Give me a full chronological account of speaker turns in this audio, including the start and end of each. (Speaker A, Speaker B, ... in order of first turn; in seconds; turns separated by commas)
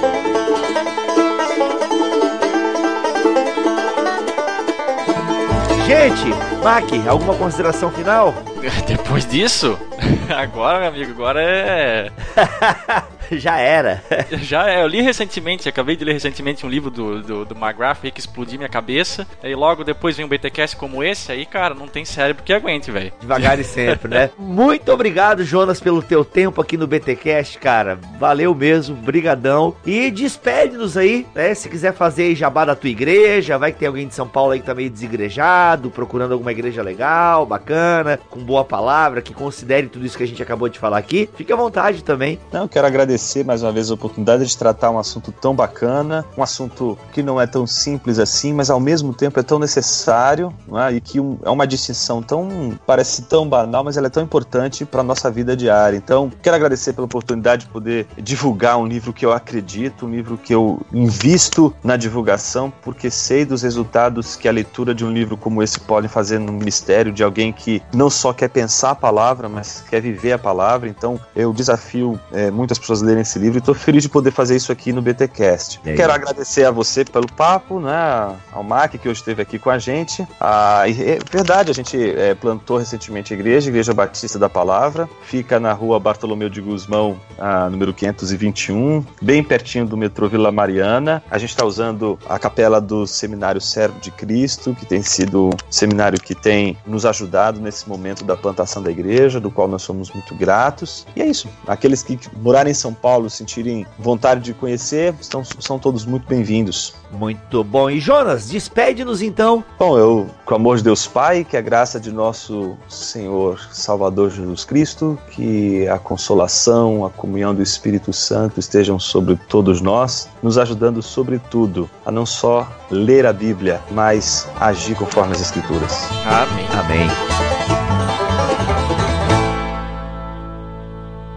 Speaker A: 5.8-8.4, Speaker B: 8.6-12.1, Speaker A: 12.3-14.3, Speaker B: 14.3-24.1, Speaker A: 23.2-42.4, Speaker C: 42.5-107.0, Speaker A: 75.8-76.2, Speaker A: 107.1-109.7, Speaker C: 109.8-126.1, Speaker B: 126.2-126.7, Speaker A: 126.7-127.2